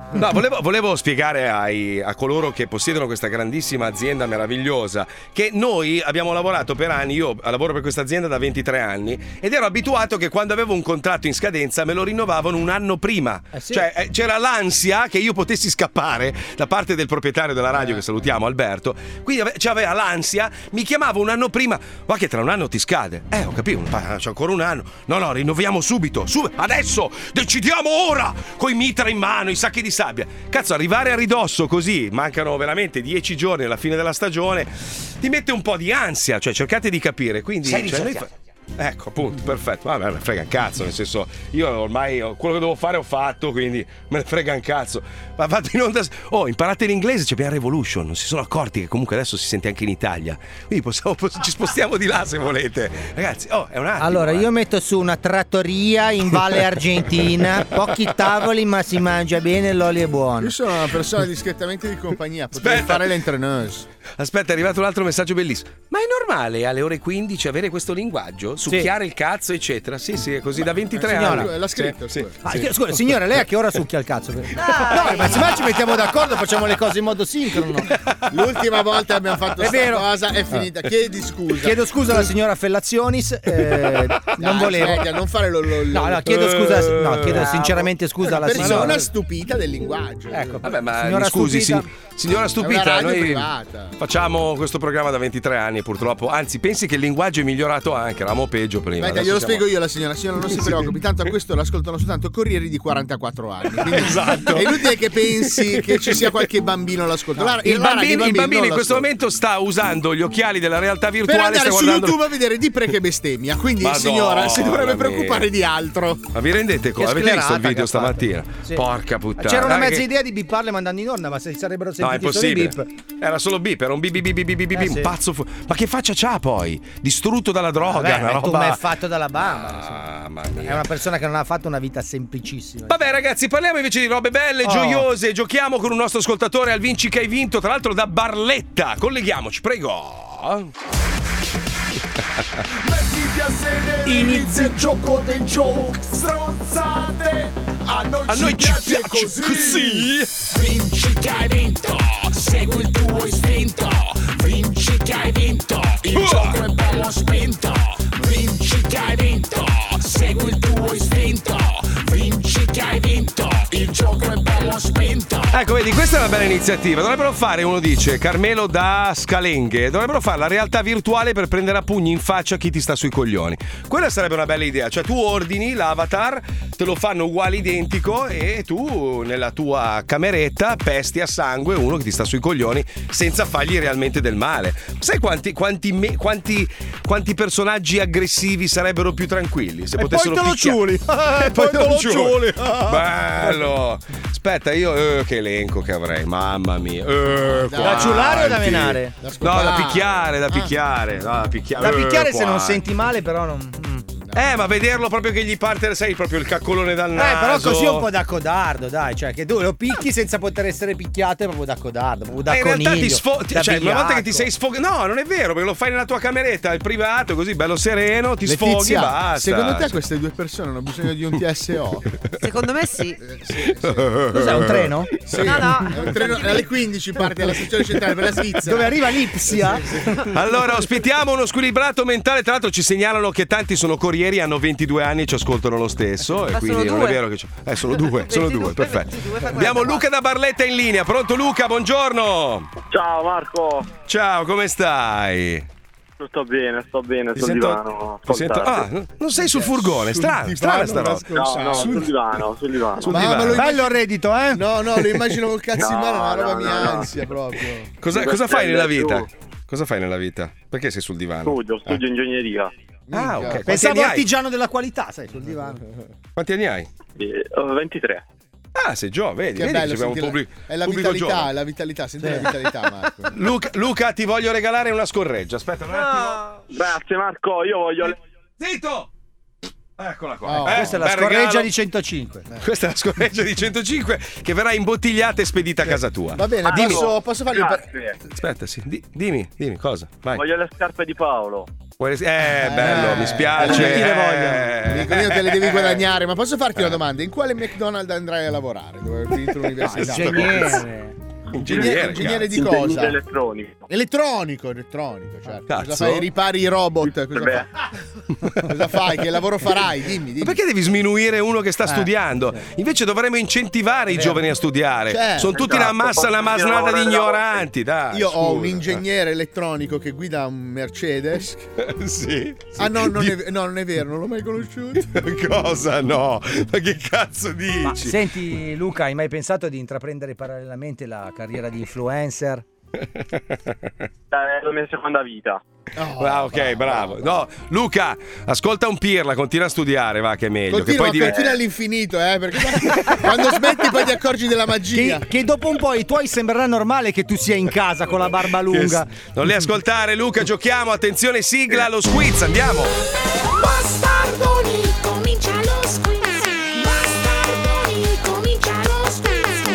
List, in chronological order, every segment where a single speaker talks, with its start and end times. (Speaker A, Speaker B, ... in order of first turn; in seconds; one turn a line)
Speaker A: 0.1-54.5
Speaker B: 13.5-13.9
Speaker B: 54.0-60.5
Speaker C: 60.4-63.9
Speaker A: 62.6-63.1
Speaker A: 64.2-73.4
Speaker C: 71.0-72.4
Speaker B: 71.0-71.5
Speaker B: 72.4-77.9
Speaker C: 78.3-82.3
Speaker B: 79.6-80.1
Speaker B: 81.6-85.0
Speaker C: 84.4-86.3
Speaker B: 85.9-89.0
Speaker A: 86.3-87.9
Speaker A: 88.4-89.0
Speaker C: 88.5-90.6
Speaker B: 90.3-91.9
Speaker A: 90.6-99.7
Speaker C: 92.6-94.0
Speaker C: 99.0-109.1
Speaker A: 103.9-104.9
Speaker A: 105.5-106.5
Speaker B: 107.6-108.1
Speaker A: 107.6-112.2
Speaker C: 111.2-116.3
Speaker A: 113.8-115.5
Speaker A: 116.3-120.1
Speaker B: 117.0-118.8
Speaker B: 119.4-122.9
Speaker A: 122.0-128.8
Speaker B: 124.7-125.1
Speaker B: 127.9-130.0
Speaker A: 129.4-130.9
Speaker B: 130.6-133.0
Speaker A: 132.9-140.7
Speaker B: 134.6-135.1
Speaker D: 142.9-149.7
Speaker B: 144.1-144.8
Speaker A: 148.3-150.5
Speaker D: 150.7-157.6
Speaker A: 156.1-156.7
Speaker D: 158.2-161.4
Speaker D: 162.1-162.9
Speaker D: 163.7-165.2
Speaker A: 165.5-190.8
Speaker B: 190.0-193.7
Speaker A: 191.4-202.8
Speaker C: 197.5-198.6
Speaker B: 197.8-199.1
Speaker C: 199.2-200.7
Speaker B: 201.8-204.1
Speaker C: 204.1-204.6
Speaker A: 204.3-208.1
Speaker B: 207.2-214.5
Speaker A: 212.5-220.0
Speaker C: 218.4-222.2
Speaker E: 222.4-223.2
Speaker C: 223.2-224.1
Speaker A: 223.6-224.9
Speaker B: 224.3-225.1
Speaker C: 225.2-229.0
Speaker E: 225.4-226.5
Speaker B: 228.6-230.1
Speaker A: 230.2-242.7
Speaker E: 236.5-237.2
Speaker E: 238.0-240.1
Speaker F: 242.9-243.9
Speaker A: 244.1-245.7
Speaker F: 246.2-248.9
Speaker A: 247.3-252.0
Speaker C: 249.4-252.1
Speaker F: 251.3-253.3
Speaker A: 253.0-253.7
Speaker C: 253.1-253.9
Speaker B: 253.5-254.6
Speaker C: 254.5-258.0
Speaker A: 255.0-255.2
Speaker F: 255.8-257.1
Speaker A: 258.0-262.0
Speaker F: 258.1-259.3
Speaker F: 261.4-262.7
Speaker C: 263.1-263.7
Speaker A: 263.1-264.3
Speaker B: 263.6-265.8
Speaker A: 266.4-266.9
Speaker F: 267.2-268.2
Speaker A: 268.8-271.5
Speaker C: 269.6-273.5
Speaker B: 272.2-272.5
Speaker A: 273.3-276.6
Speaker F: 276.7-278.2
Speaker A: 278.6-279.1
Speaker A: 280.0-281.7
Speaker C: 280.4-280.9
Speaker B: 280.6-282.5
Speaker A: 282.6-287.1
Speaker C: 286.4-287.9
Speaker F: 286.6-288.2
Speaker A: 288.3-290.4
Speaker F: 290.4-291.7
Speaker A: 292.0-296.0
Speaker B: 292.5-294.7
Speaker C: 292.7-294.1
Speaker C: 294.8-300.8
Speaker B: 299.8-301.2
Speaker A: 300.3-300.7
Speaker A: 301.5-302.6
Speaker C: 301.6-303.2
Speaker F: 302.5-303.9
Speaker C: 303.9-307.7
Speaker A: 305.7-306.3
Speaker F: 307.0-307.7
Speaker C: 308.6-310.6
Speaker A: 310.4-319.0
Speaker C: 314.1-314.4
Speaker C: 315.1-316.0
Speaker F: 315.6-317.6
Speaker C: 318.1-321.7
Speaker A: 321.8-323.4
Speaker C: 322.8-325.1
Speaker A: 325.1-328.2
Speaker B: 327.8-332.6
Speaker A: 333.1-333.9
Speaker F: 334.3-335.6
Speaker C: 336.0-337.2
Speaker A: 336.2-341.4
Speaker C: 340.7-345.3
Speaker F: 341.2-341.6
Speaker B: 344.9-349.1
Speaker A: 348.7-352.9